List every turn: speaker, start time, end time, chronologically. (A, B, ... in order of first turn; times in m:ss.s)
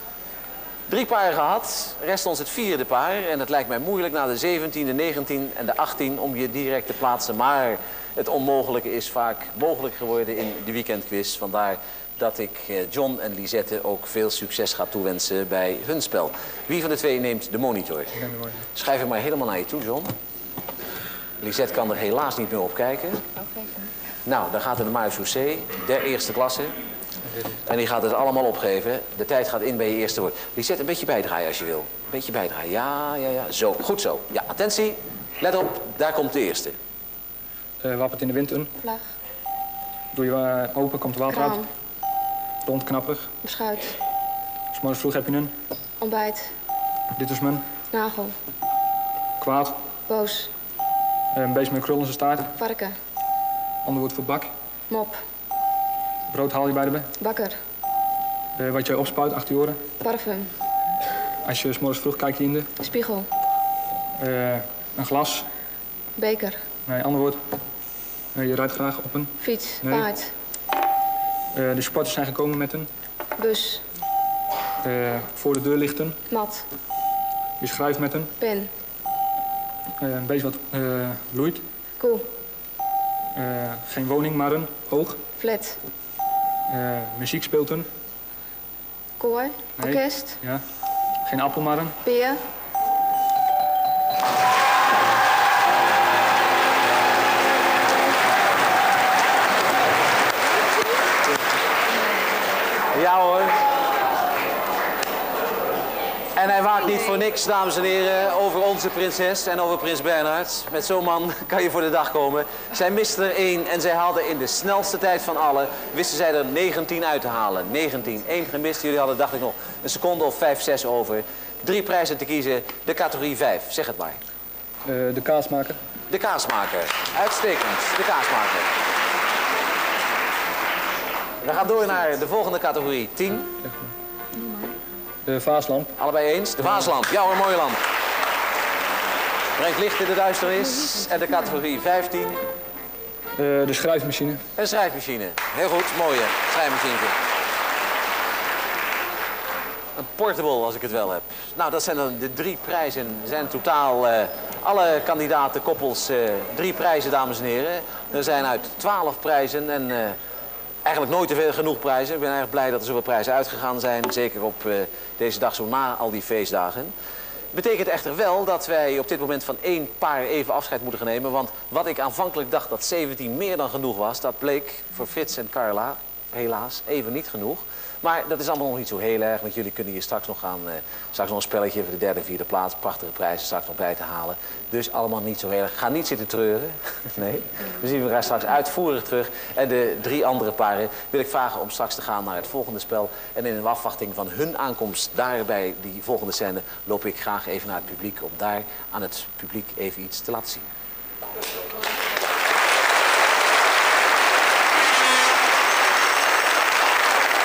0:00.9-0:20.1 A
0:18.2-0:18.6 B
0:21.4-0:23.2 A
0:24.2-0:26.8 A
0:27.6-0:36.8 A
0:37.8-0:38.7 B
0:38.8-0:39.1 C
0:40.1-0:41.6 B
0:41.3-0:41.7 C
0:42.6-0:43.3 B
0:43.4-0:44.0 C
0:44.7-0:45.5 B
0:46.0-0:46.5 C
0:47.2-0:47.6 B
0:47.9-0:48.3 C
0:49.4-0:49.8 B
0:50.1-0:50.5 C
0:51.3-0:52.5 B
0:52.6-0:53.0 C
0:53.8-0:54.5 B
0:54.9-0:55.2 C
0:56.3-0:57.1 B
0:57.2-0:57.6 C
0:58.6-0:59.8 B
1:00.0-1:00.5 C
1:01.4-1:02.7 B
1:02.8-1:03.3 C
1:04.2-1:05.4 B
1:06.2-1:06.6 C
1:06.9-1:07.4 B
1:08.3-1:09.3 B
1:09.4-1:10.3 C
1:11.6-1:12.9 B
1:13.4-1:13.8 C
1:14.8-1:16.2 B
1:16.3-1:16.6 C
1:17.6-1:18.3 B
1:18.4-1:18.7 C
1:20.0-1:21.6 B
1:22.0-1:22.3 C
1:23.3-1:25.2 B
1:25.4-1:25.8 C
1:26.7-1:27.9 B
1:29.2-1:30.4 C
1:29.8-1:30.6 B
1:31.2-1:31.9 B
1:32.0-1:32.4 C
1:42.9-1:43.5 A
1:46.4-2:04.2 A
2:04.9-2:05.8 B
2:06.1-2:08.7 A
2:11.4-2:13.5 A
2:13.6-2:13.9 B
2:15.3-2:15.9 B
2:16.0-2:17.8 A
2:19.6-2:22.4 A
2:23.4-2:24.4 B
2:24.6-2:27.2 A
2:30.0-2:40.2 A
2:40.8-2:46.9 A
2:47.5-3:20.7 A